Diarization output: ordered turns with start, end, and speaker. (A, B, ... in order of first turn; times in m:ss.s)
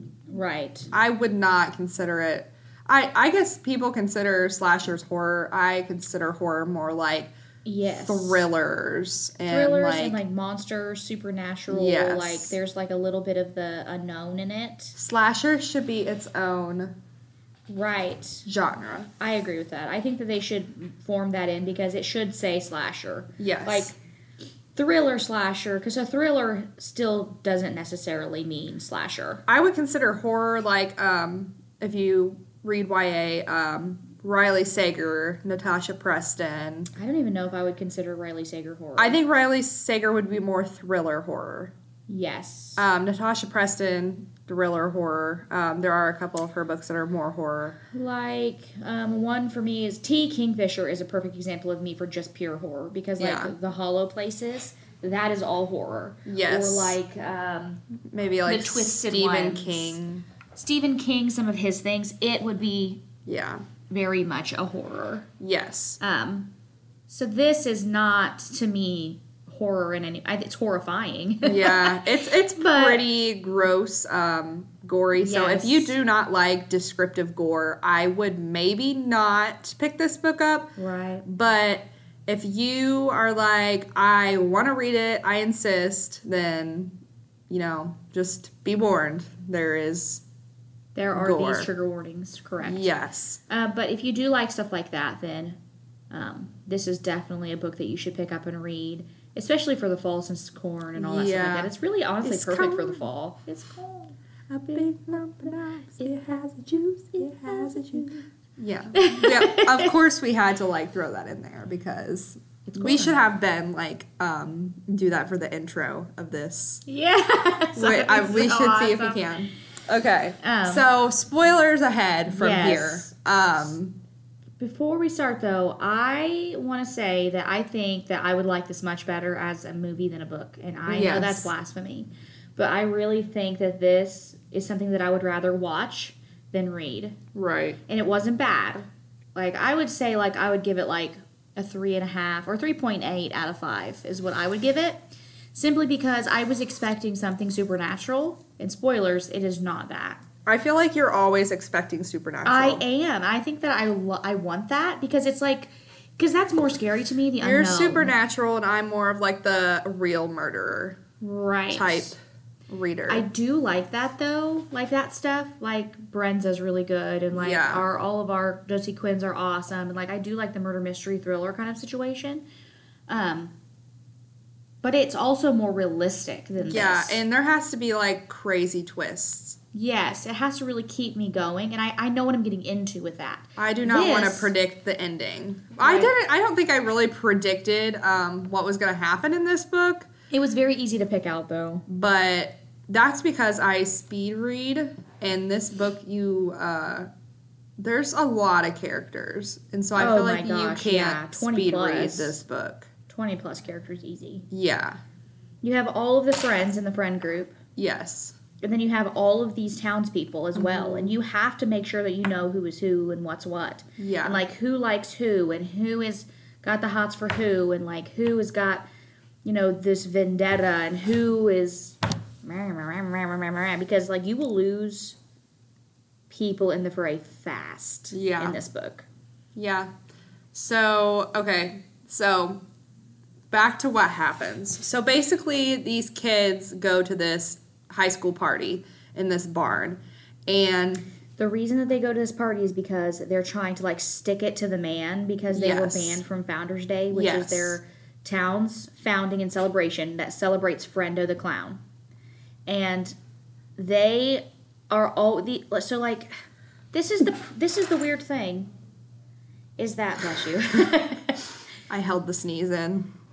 0:00.3-0:00.9 A
0:00.9-0:07.3 B
0:07.6-0:08.4 A
0:07.9-0:10.2 B
0:09.5-0:15.0 A
0:11.7-0:12.6 B
0:15.0-0:16.9 B
0:17.7-0:18.4 A
0:18.4-0:19.1 B
0:19.2-0:23.9 A
0:23.4-0:23.9 B
0:24.8-0:29.4 A
0:29.5-0:36.9 B
0:36.9-0:39.2 A
0:39.0-0:41.7 B
0:42.1-0:42.8 A
0:42.8-0:47.8 B
0:47.9-0:57.8 A
0:53.2-0:53.5 B
0:56.2-0:57.0 B
0:58.1-1:00.2 B
0:58.4-1:00.0 A
1:00.5-1:03.0 A
1:03.2-1:03.6 B
1:03.9-1:05.3 A
1:05.4-1:06.0 B
1:06.0-1:06.5 A
1:07.1-1:13.0 A
1:11.4-1:27.0 B
1:15.2-1:15.9 A
1:20.8-1:21.2 A
1:27.5-1:30.2 B
1:30.9-1:32.9 A
1:31.1-1:31.7 B
1:32.6-1:33.4 B
1:33.5-1:35.6 A
1:36.1-1:44.2 A
1:41.0-1:41.7 B
1:42.2-1:43.1 B
1:44.5-1:56.8 B
1:47.2-1:48.1 A
1:48.9-1:49.9 A
1:52.7-1:53.2 A
1:56.8-1:59.2 A
1:57.7-2:04.0 B
2:00.4-2:00.8 A
2:02.3-2:03.1 A
2:04.6-2:17.2 A
2:10.9-2:11.5 B
2:17.3-2:17.8 B
2:17.9-2:25.0 A
2:25.5-2:30.2 A
2:30.4-2:32.8 B
2:32.4-2:38.1 A
2:37.4-2:41.0 B
2:41.2-2:42.1 A
2:41.7-2:42.2 B
2:42.7-2:43.2 B
2:43.1-2:52.4 A
2:47.3-2:47.8 B
2:53.1-2:53.5 A
2:54.8-2:57.2 A
2:56.6-2:59.6 B
2:59.7-3:04.5 A
3:03.6-3:10.1 B
3:05.8-3:06.1 A
3:10.3-3:11.8 A
3:11.9-3:17.1 B
3:17.8-3:22.9 B
3:19.9-3:22.4 A
3:23.1-3:24.4 A
3:24.5-3:25.0 B
3:25.6-3:27.6 A
3:27.8-3:28.4 B
3:28.6-3:38.9 A
3:30.5-3:31.2 B
3:34.0-3:34.4 B
3:39.4-3:45.2 A
3:46.3-3:49.0 A
3:48.1-3:48.6 B
3:49.5-3:49.9 B
3:50.5-3:52.6 B
3:53.5-4:01.0 B
4:01.4-4:11.8 A
4:05.5-4:06.2 B
4:07.1-4:07.8 B
4:12.7-4:13.1 A
4:13.8-4:16.3 A
4:16.9-4:18.7 A
4:19.8-4:21.4 A
4:21.9-4:23.1 B